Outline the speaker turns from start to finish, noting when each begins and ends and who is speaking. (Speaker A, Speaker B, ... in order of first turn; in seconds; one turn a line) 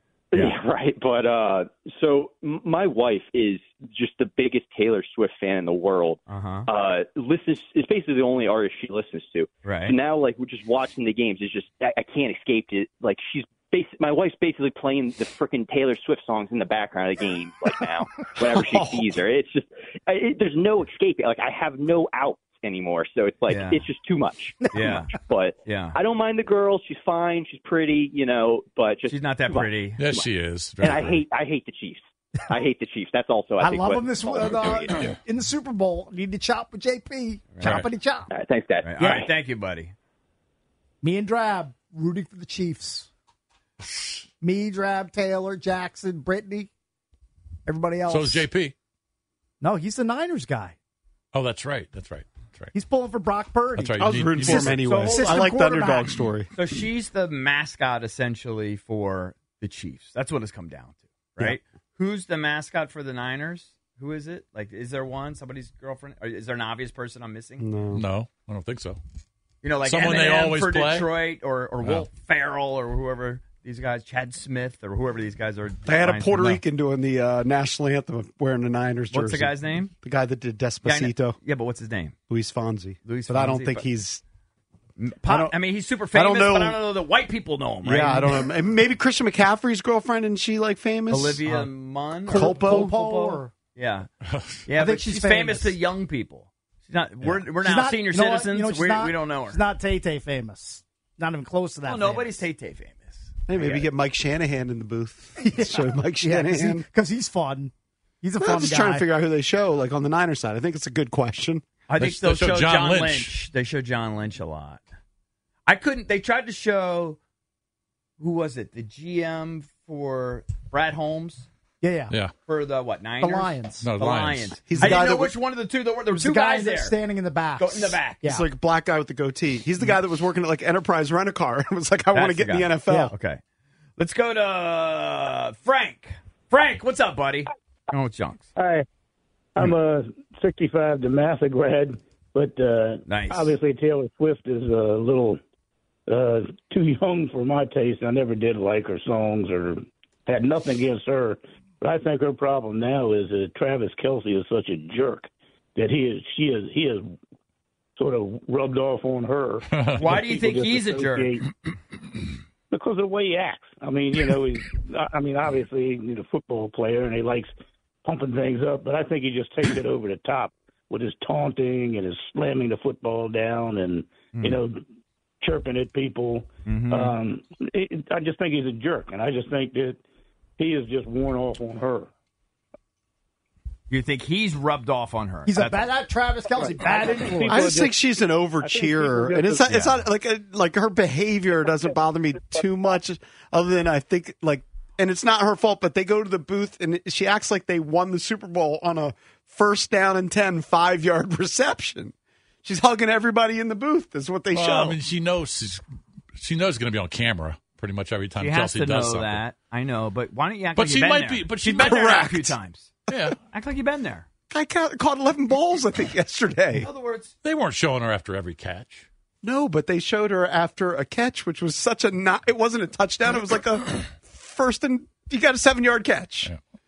Speaker A: 0.3-30.3
Speaker B: 6.3-6.7
Speaker B: 9.6-10.0
Speaker C: 18.4-19.1
Speaker B: 23.5-23.8
Speaker B: 24.7-26.0
Speaker B: 29.1-30.0
Speaker D: 30.0-31.2
Speaker A: 30.8-35.1
Speaker E: 33.6-38.3
Speaker D: 37.6-37.9
Speaker A: 38.3-39.3
Speaker B: 38.8-39.9
Speaker E: 41.0-43.1
Speaker E: 44.4-46.7
Speaker E: 47.7-48.5
Speaker D: 48.1-48.8
Speaker E: 49.6-50.8
Speaker D: 51.3-52.7
Speaker E: 52.7-56.1
Speaker D: 53.8-54.9
Speaker C: 54.0-56.5
Speaker B: 54.5-55.5
Speaker B: 56.5-67.7
Speaker C: 67.6-68.0
Speaker D: 67.9-69.0
Speaker B: 69.6-76.6
Speaker D: 69.8-71.1
Speaker D: 71.8-72.1
Speaker C: 75.8-81.4
Speaker B: 79.1-79.9
Speaker B: 80.8-82.2
Speaker C: 82.3-84.2
Speaker B: 83.0-83.9
Speaker B: 85.0-88.5
Speaker C: 85.3-85.5
Speaker C: 86.1-86.8
Speaker C: 87.8-91.4
Speaker B: 91.1-94.1
Speaker C: 92.3-93.0
Speaker E: 92.3-93.5
Speaker D: 94.3-94.6
Speaker B: 94.7-99.6
Speaker E: 94.8-95.8
Speaker E: 97.6-102.4
Speaker B: 101.8-103.9
Speaker C: 103.5-106.9
Speaker E: 105.4-109.1
Speaker C: 108.4-111.7
Speaker B: 111.9-114.8
Speaker D: 112.0-113.3
Speaker B: 115.7-117.2
Speaker B: 118.2-121.5
Speaker E: 121.8-122.2
Speaker B: 122.5-127.0
Speaker E: 123.2-123.9
Speaker D: 123.8-124.6
Speaker C: 124.7-125.3
Speaker E: 126.2-128.5
Speaker B: 127.6-128.2
Speaker C: 128.2-133.1
Speaker B: 132.1-133.4
Speaker B: 134.0-138.5
Speaker F: 138.6-138.9
Speaker F: 139.6-145.4
Speaker B: 143.1-143.5
Speaker F: 146.1-157.2
Speaker F: 158.0-161.5
Speaker D: 159.7-160.1
Speaker B: 160.0-161.3
Speaker F: 162.7-167.5
Speaker F: 168.1-174.8
Speaker B: 174.3-174.6
Speaker F: 175.4-180.0
Speaker B: 176.7-177.1
Speaker F: 180.6-182.1
Speaker B: 183.9-185.9
Speaker E: 185.5-187.8
Speaker F: 186.8-187.9
Speaker C: 187.5-205.0
Speaker F: 188.6-189.7
Speaker B: 189.7-190.0
Speaker D: 204.5-205.8
Speaker D: 206.4-209.4
Speaker B: 208.4-214.3
Speaker D: 210.8-212.4
Speaker C: 211.8-212.5
Speaker D: 213.1-213.4
Speaker C: 214.5-216.9
Speaker B: 216.8-217.3
Speaker D: 217.4-219.1
Speaker C: 219.4-226.5